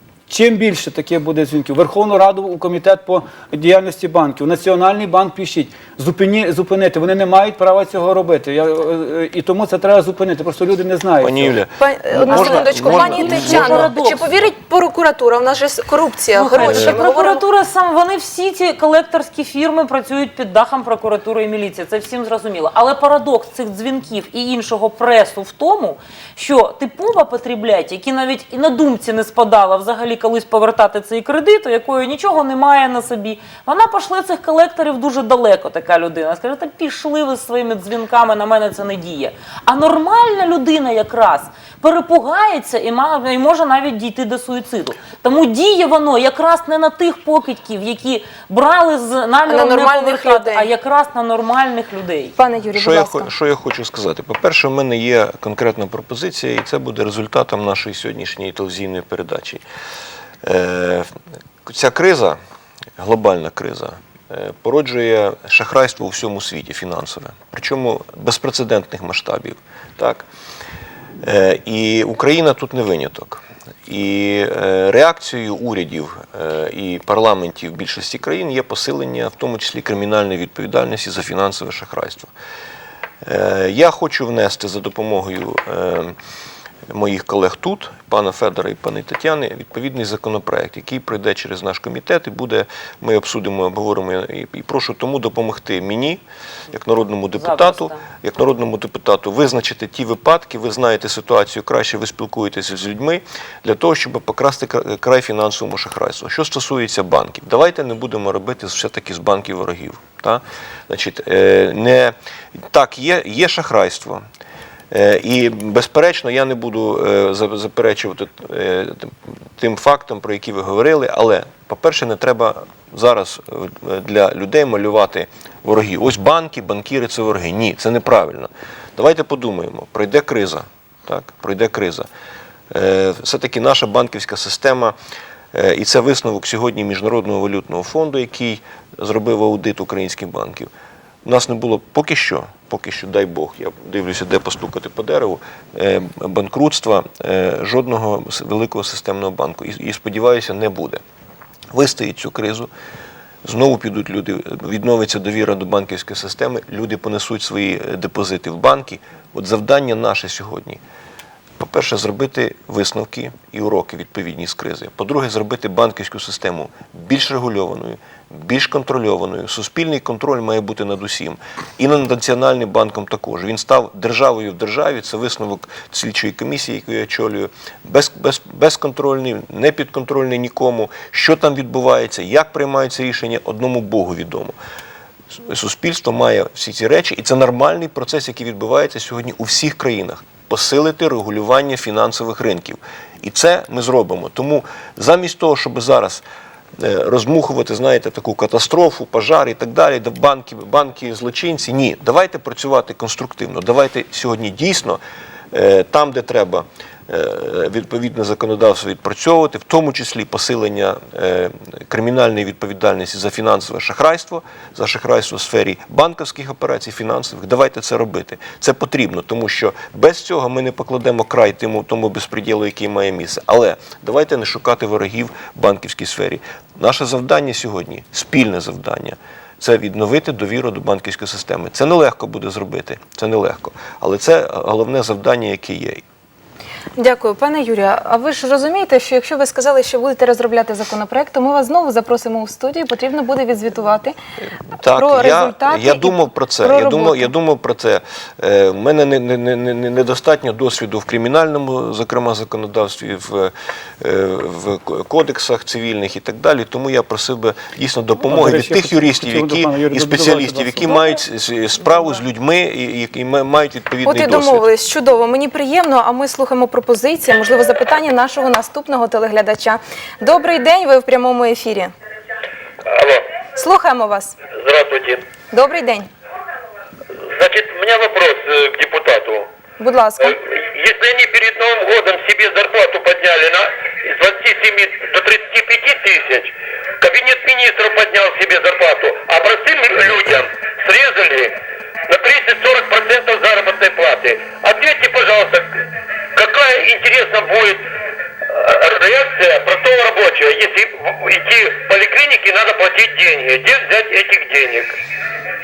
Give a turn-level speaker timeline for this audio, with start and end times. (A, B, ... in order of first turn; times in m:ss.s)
0:00.3-0:11.5 A
0:11.2-0:13.9 B
0:11.8-0:17.4 C
0:12.3-0:14.3 D
0:16.3-0:52.4 D
0:16.6-0:16.9 B
0:49.4-0:50.7 C
0:52.4-0:53.3 C
0:52.7-0:59.6 B
1:00.4-1:01.1 B
1:01.6-1:02.4 B
1:03.0-1:10.2 B
1:11.2-1:22.3 B
1:23.2-1:26.1 B
1:26.9-1:52.1 B
1:37.3-1:38.0 D
1:52.7-1:54.2 B
1:54.9-2:12.1 B
2:12.7-2:15.0 B
2:15.5-2:20.7 B
2:21.2-2:31.0 B
2:31.7-2:32.7 B
2:33.4-2:40.8 B
2:41.6-3:04.5 B
3:05.3-3:16.2 B
3:16.8-3:25.0 B
3:25.5-3:56.0 B
3:57.0-4:04.1 C
4:04.4-4:24.7 B
4:04.9-4:07.3 C
4:18.3-4:20.9 A
4:24.0-4:31.9 C
4:32.8-4:33.3 E
4:33.6-4:34.4 C
4:34.5-4:35.2 E
4:35.5-4:36.1 C
4:37.3-4:39.5 E
4:39.8-4:40.4 C
4:40.2-4:55.8 E
4:56.3-4:57.9 E
4:58.4-5:05.0 E